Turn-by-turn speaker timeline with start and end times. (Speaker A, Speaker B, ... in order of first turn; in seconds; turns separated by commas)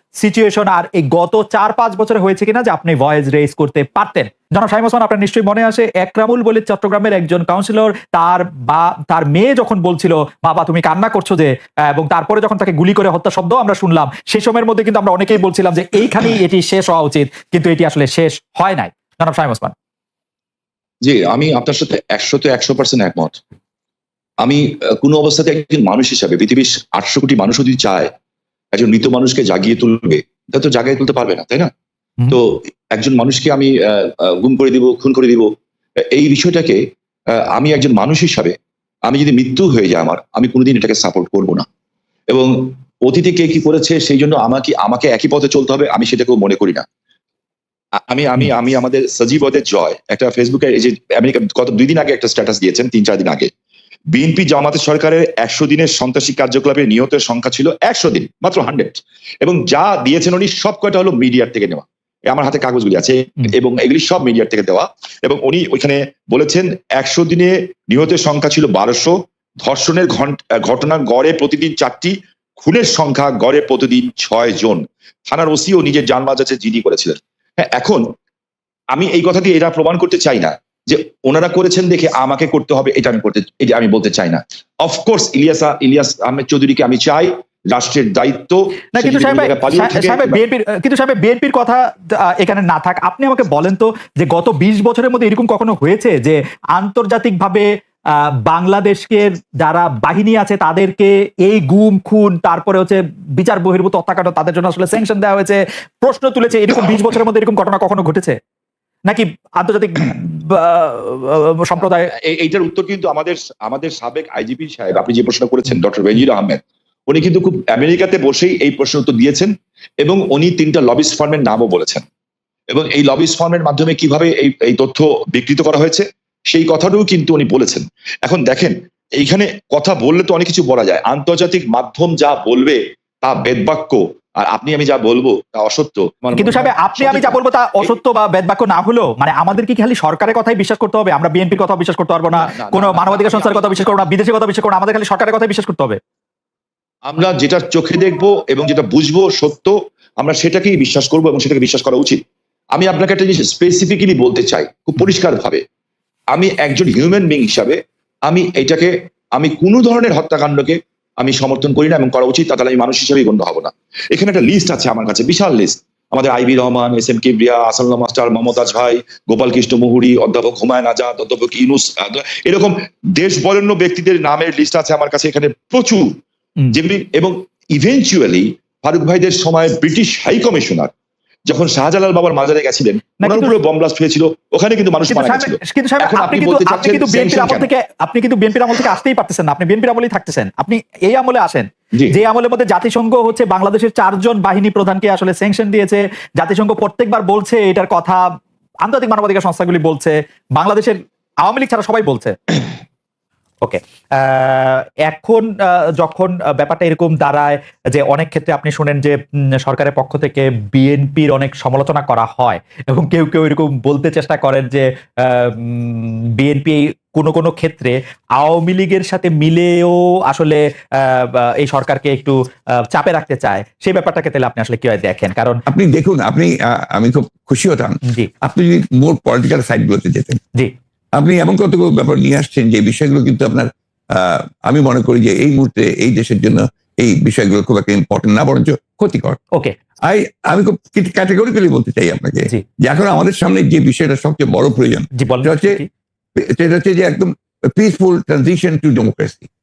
Speaker A: 0.2-19.7, Speaker B: 21.0-23.4, Speaker B: 24.4-28.1, Speaker B: 28.7-31.7, Speaker B: 32.3-35.5, Speaker B: 36.1-36.8, Speaker B: 37.5-38.5, Speaker B: 39.1-41.6, Speaker B: 42.3-46.8, Speaker B: 48.1-53.5, Speaker B: 54.1-78.0, Speaker B: 78.9-90.4, Speaker A: 89.0-97.7, Speaker A: 98.5-108.3, Speaker A: 109.1-112.1, Speaker B: 112.3-122.0, Speaker B: 122.7-137.9, Speaker A: 136.3-146.0, Speaker B: 142.3-143.8, Speaker B: 147.1-152.2, Speaker B: 152.7-155.6, Speaker B: 156.3-176.1, Speaker B: 176.7-180.9, Speaker B: 181.5-187.7, Speaker A: 183.2-183.5, Speaker A: 185.1-198.2, Speaker A: 198.8-202.7, Speaker A: 203.6-222.3, Speaker A: 222.9-225.6, Speaker C: 225.7-230.4, Speaker C: 231.2-239.4, Speaker C: 240.1-245.8, Speaker A: 245.2-245.9, Speaker C: 246.3-249.5